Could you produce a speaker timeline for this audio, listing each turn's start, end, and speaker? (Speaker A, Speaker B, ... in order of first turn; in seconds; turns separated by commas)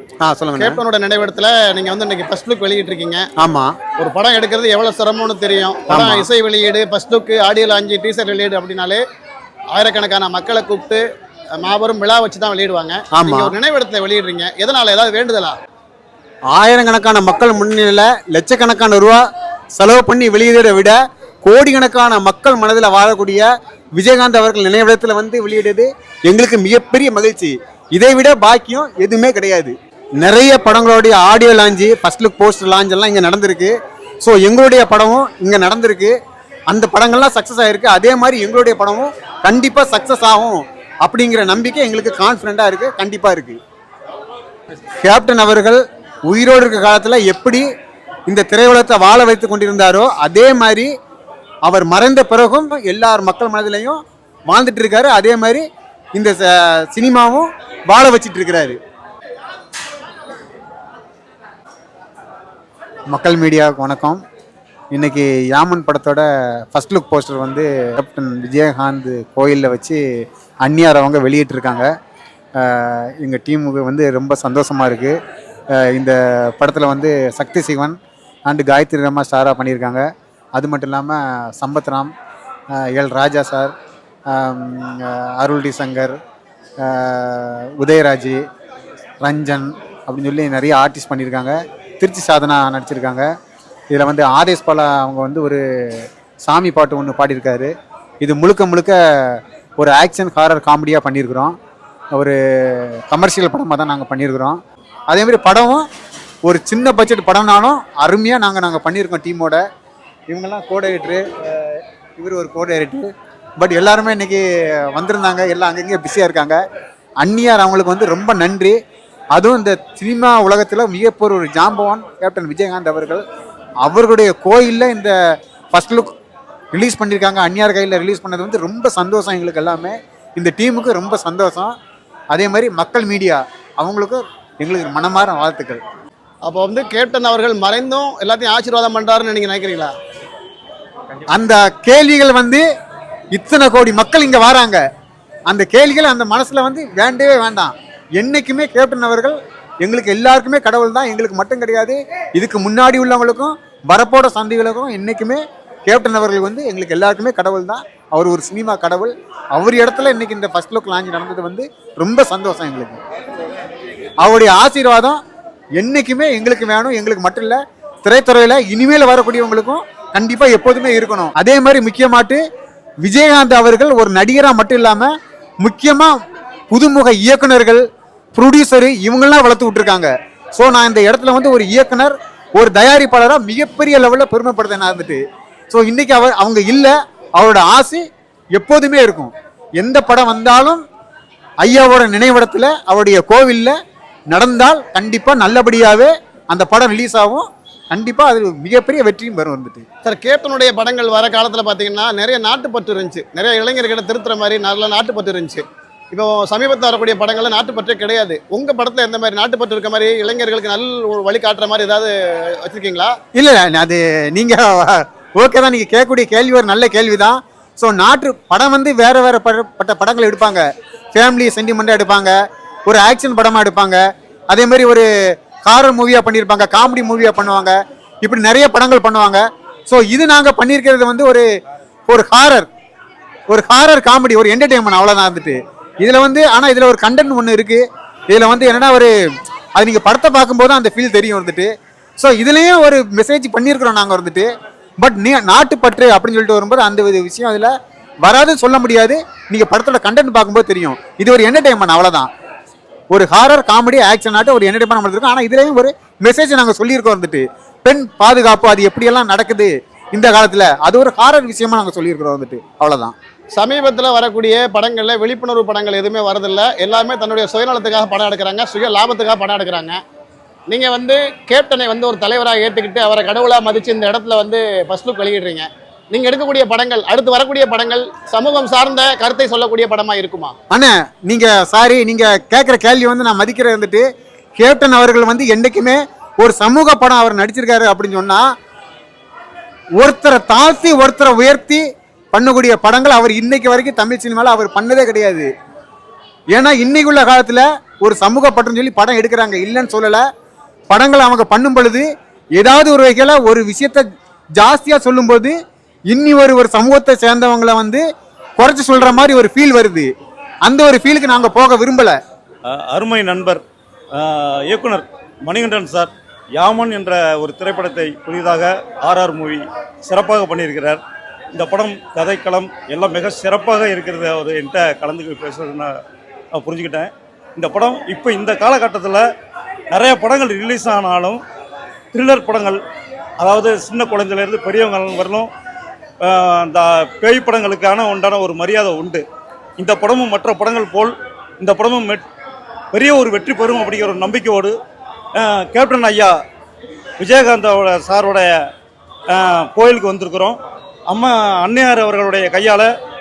Speaker A: 0.2-0.8, Speaker B: 0.6-3.3, Speaker A: 3.4-3.7, Speaker B: 4.0-9.0, Speaker A: 5.9-6.3, Speaker B: 9.7-11.0, Speaker B: 11.6-15.5, Speaker A: 13.1-13.5, Speaker A: 16.5-19.2, Speaker A: 19.8-36.1, Speaker A: 36.7-43.6, Speaker A: 45.0-47.6, Speaker A: 48.3-50.9, Speaker A: 51.6-55.6, Speaker A: 56.1-58.8, Speaker A: 63.1-64.2, Speaker A: 64.9-70.0, Speaker A: 70.6-71.9, Speaker A: 72.6-75.2, Speaker A: 75.7-80.0, Speaker A: 80.6-82.1, Speaker A: 82.7-83.7, Speaker A: 84.3-86.2, Speaker A: 86.8-88.4, Speaker A: 89.2-93.3, Speaker A: 93.9-101.5, Speaker A: 102.1-104.6, Speaker A: 105.1-105.8, Speaker A: 106.4-109.6, Speaker A: 110.3-116.6, Speaker A: 117.2-118.8, Speaker A: 119.3-123.2, Speaker A: 123.8-125.2, Speaker A: 125.7-126.1, Speaker A: 126.7-131.7, Speaker A: 132.3-135.8, Speaker B: 136.4-139.9, Speaker A: 141.3-142.7, Speaker A: 143.3-144.8, Speaker A: 145.5-163.0, Speaker A: 164.2-165.2, Speaker A: 165.8-172.4, Speaker A: 173.0-176.2, Speaker A: 176.7-188.0, Speaker A: 188.6-190.8, Speaker A: 191.6-193.7, Speaker A: 194.3-199.8, Speaker B: 200.0-213.1, Speaker A: 213.3-222.3, Speaker A: 222.8-225.1, Speaker A: 225.6-231.5, Speaker A: 232.1-232.7, Speaker A: 233.5-239.1, Speaker A: 239.8-247.7, Speaker A: 248.2-252.3, Speaker A: 253.1-263.1, Speaker B: 263.6-270.0, Speaker B: 270.7-280.5, Speaker A: 280.7-284.1, Speaker A: 284.6-288.4, Speaker A: 290.0-295.5, Speaker A: 296.5-300.2, Speaker A: 300.9-304.0, Speaker A: 304.6-305.6, Speaker A: 306.1-308.0, Speaker A: 308.6-310.1, Speaker A: 310.6-312.2, Speaker C: 312.6-313.6, Speaker C: 314.1-321.0, Speaker C: 321.5-326.0, Speaker C: 326.5-329.2, Speaker C: 329.9-331.4, Speaker C: 332.1-332.8, Speaker C: 333.4-335.5, Speaker C: 336.2-339.2, Speaker C: 339.8-342.2, Speaker C: 342.9-344.8, Speaker C: 345.3-346.4, Speaker C: 347.2-348.6, Speaker C: 349.3-352.9